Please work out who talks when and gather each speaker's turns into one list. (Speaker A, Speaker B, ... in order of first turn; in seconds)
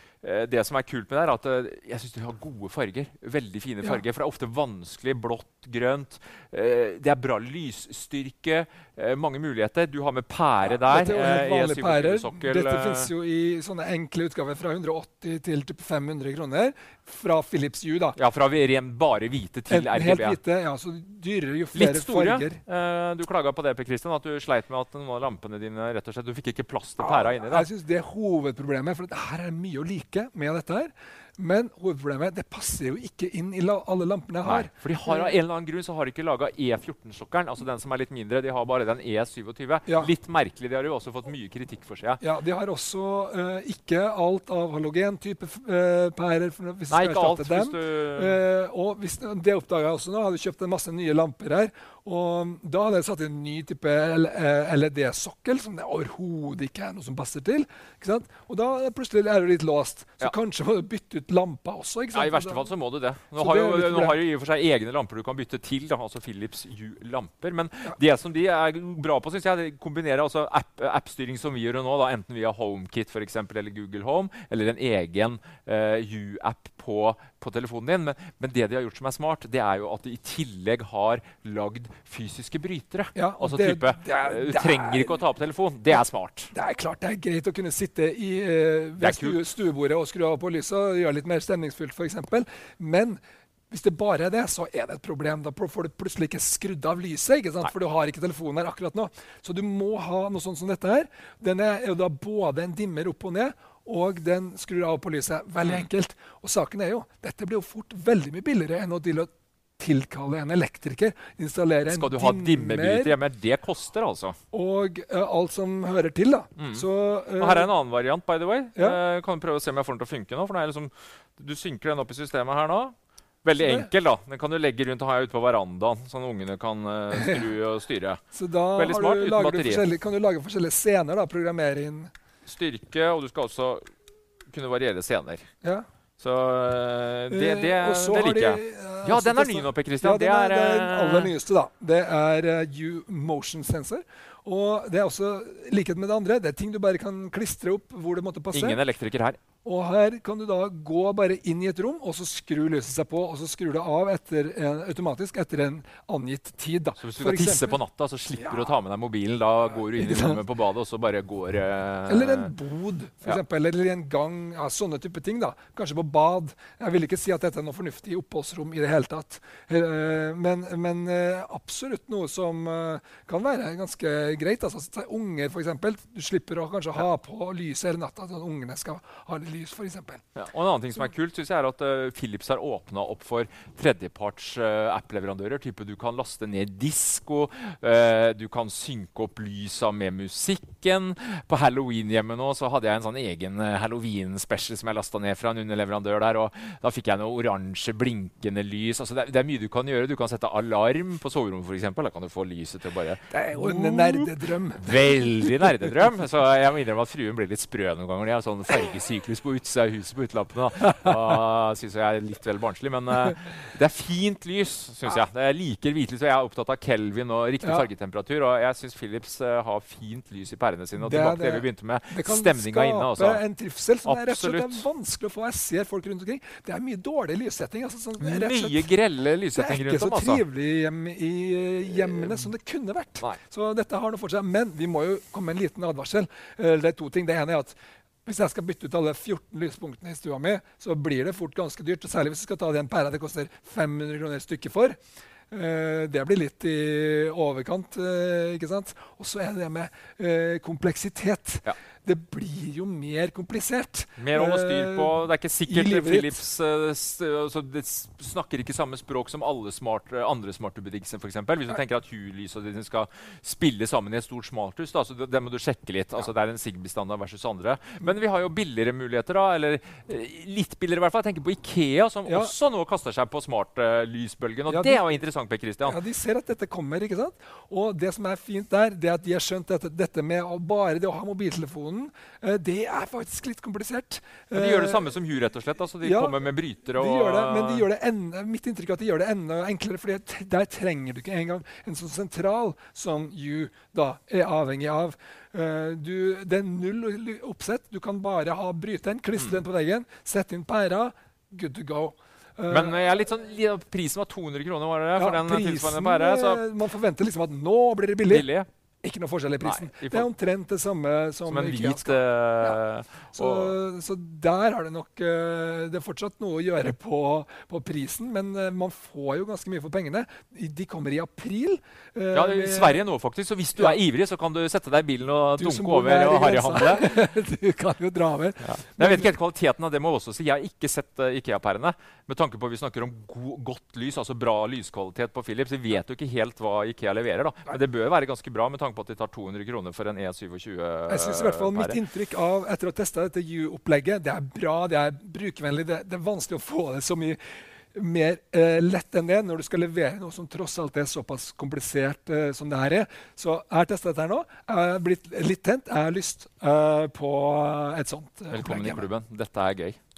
Speaker A: 0.2-13.1, 18.1-20.4, 21.7-27.6, 34.4-42.2, 46.9-48.4, 62.1-86.5, 89.0-89.4, 111.9-114.4, 116.6-116.8, 117.4-128.2, 128.8-129.9, 132.4-133.9, 134.5-135.5, 136.2-141.3, 148.5-149.4, 157.0-162.5, 180.3-223.4, 224.0-224.8, 228.2-230.4, 231.9-232.5, 254.2-276.0, 284.5-287.8, 302.7-306.6, 308.3-308.7, 309.6-310.3, 311.5-313.7, 322.3-327.1, 328.6-342.0, 358.5-360.0
Speaker B: 10.7-18.2, 19.7-22.6, 27.0-35.3, 42.2-62.7, 63.4-64.2, 83.1-85.2, 86.5-93.2, 93.7-113.2, 114.5-117.7, 123.6-123.9, 127.1-127.4, 128.3-132.1, 137.3-148.8, 149.6-157.8, 158.3-158.7, 159.8-160.4, 162.1-180.2, 203.3-204.9, 217.6-217.9, 221.0-228.9, 229.5-245.0, 245.5-256.4, 272.2-272.5, 274.7-275.0, 275.8-285.1, 286.0-303.0, 305.2-308.5, 309.0-312.8, 313.3-323.0, 325.6-329.3, 341.1-347.4, 347.9-359.1